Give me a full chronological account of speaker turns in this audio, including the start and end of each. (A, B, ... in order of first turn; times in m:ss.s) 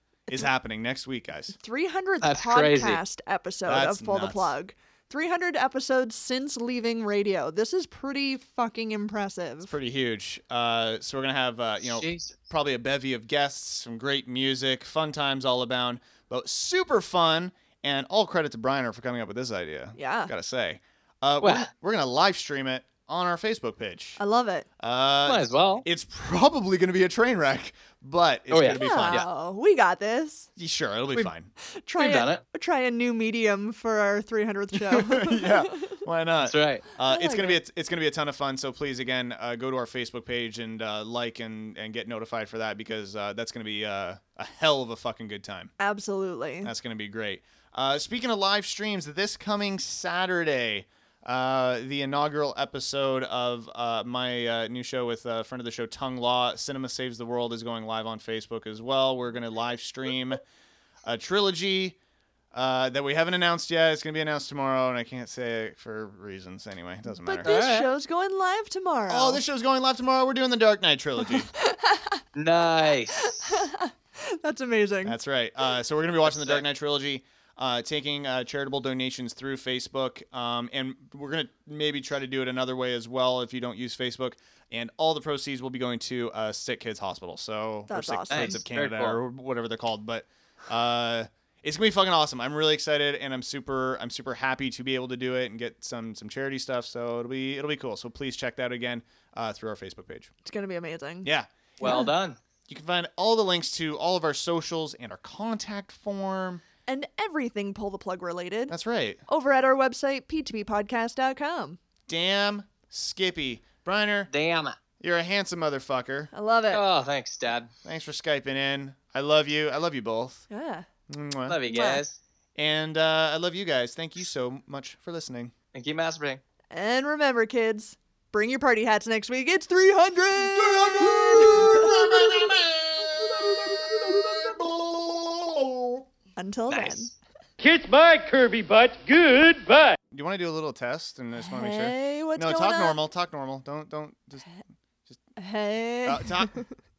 0:00.3-0:01.6 A
0:01.6-0:09.7 B
0:02.2-0:03.0 C
0:03.7-0:04.6 A
0:09.6-0:24.2 A
0:11.8-0:12.4 C
0:20.0-0:20.3 B
0:21.4-0:21.7 C
0:24.2-0:24.7 B
0:24.8-0:29.2 A
0:25.3-0:25.8 C
0:28.5-0:29.3 C
0:28.7-0:30.5 B
0:30.6-0:31.5 A
0:31.8-0:36.0 B
0:32.0-0:32.4 C
0:34.8-0:45.7 A
0:36.4-0:36.9 C
0:37.0-0:37.6 B
0:45.8-0:46.7 B
0:46.6-1:00.4 A
1:01.0-1:02.0 A
1:02.5-1:07.5 A
1:07.2-1:09.4 B
1:07.4-1:07.9 C
1:09.1-1:11.5 A
1:11.2-1:12.2 B
1:12.4-1:13.7 C
1:13.2-1:15.2 B
1:15.0-1:40.3 A
1:16.2-1:16.6 C
1:27.9-1:28.6 B
1:28.3-1:29.2 C
1:40.4-1:41.3 B
1:41.2-1:41.5 A
1:41.8-1:42.4 C
1:41.8-1:42.1 B
1:42.7-1:46.6 A
1:46.9-1:48.8 B
1:48.7-1:49.2 A
1:49.3-1:51.8 B
1:52.1-1:54.3 A
1:54.3-1:54.8 C
1:55.0-1:56.3 A
1:56.3-1:56.8 B
1:56.7-1:57.7 C
1:57.8-2:00.5 A
2:00.5-2:00.9 B
2:01.1-2:01.6 A
2:01.5-2:02.2 C
2:01.7-2:02.0 B
2:02.6-2:05.5 A
2:05.7-2:06.4 C
2:06.7-2:12.1 B
2:10.4-2:16.0 A
2:16.4-2:17.1 B
2:16.7-2:17.1 C
2:17.6-2:20.0 D
2:20.1-2:24.5 A
2:21.5-2:23.0 B
2:25.4-2:26.6 B
2:26.0-2:26.6 A